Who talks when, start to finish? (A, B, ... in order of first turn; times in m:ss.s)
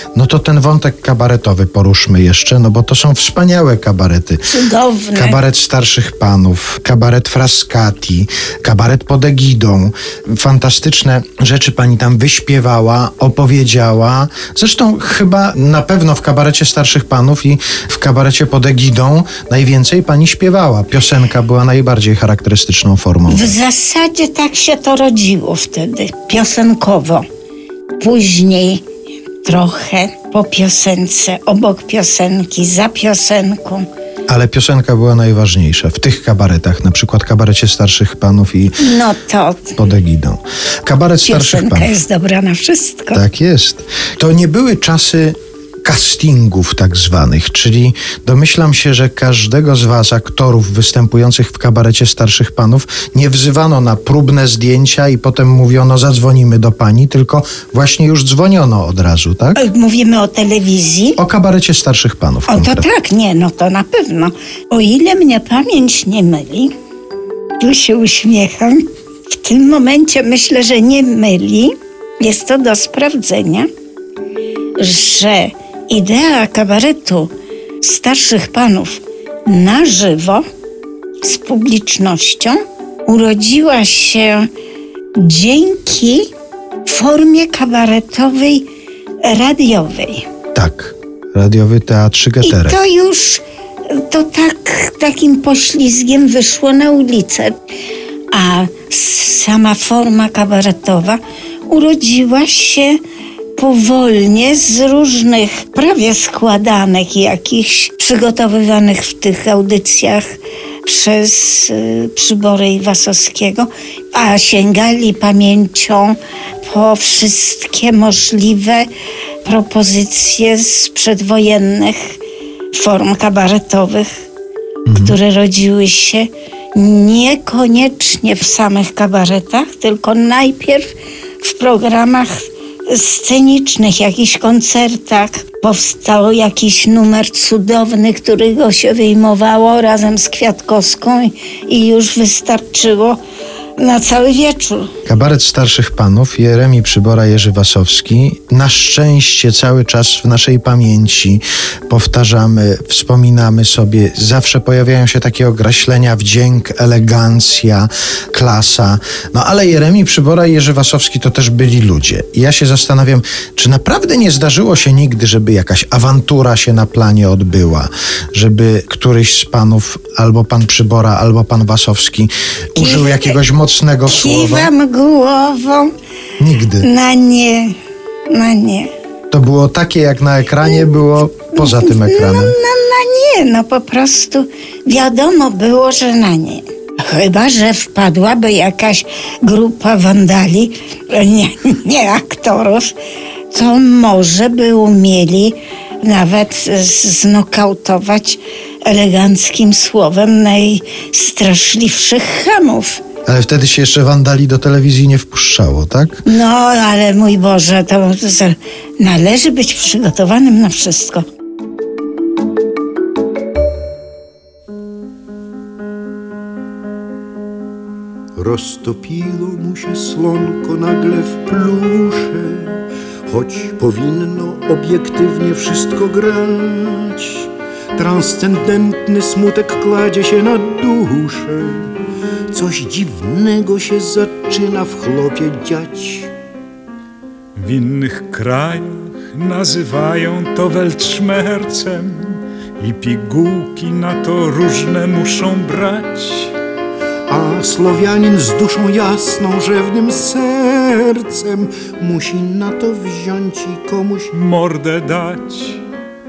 0:00.1-0:04.5 A
0:04.4-0:05.4 B
0:05.1-0:23.5 A
0:23.3-0:27.2 B
0:28.0-0:28.8 B
0:29.4-0:33.9 B
0:34.3-0:38.9 A
0:38.8-0:39.8 B
0:39.8-0:42.0 A
0:41.2-0:43.2 B
0:43.1-0:59.6 A
0:59.6-1:01.2 B
1:01.2-1:02.8 A
1:02.5-1:06.7 B
1:07.6-1:13.7 B
1:14.8-1:20.4 B
1:21.2-1:24.5 B
1:25.2-1:26.3 B
1:26.8-1:28.6 B
1:29.2-1:30.3 B
1:30.5-1:32.8 A
1:32.4-1:37.5 B
1:38.3-1:43.0 B
1:43.6-1:58.9 B
1:59.4-2:02.1 B
2:02.7-2:04.1 B
2:04.9-2:05.2 A
2:04.9-2:23.2 B
2:23.8-2:24.9 B
2:25.0-2:54.7 A
2:52.7-2:53.4 B
2:54.1-2:55.9 B
2:56.4-2:56.9 A
2:56.8-2:57.7 B
2:58.3-2:58.9 B
2:59.3-3:02.6 A
3:00.6-3:00.9 B
3:01.5-3:12.9 B
3:13.5-3:23.0 B
3:23.2-3:26.2 A
3:26.2-3:31.2 B
3:38.4-3:51.9 C
3:52.5-3:56.3 C
3:57.6-4:06.6 D
4:07.3-4:14.3 C
4:14.3-4:15.8 D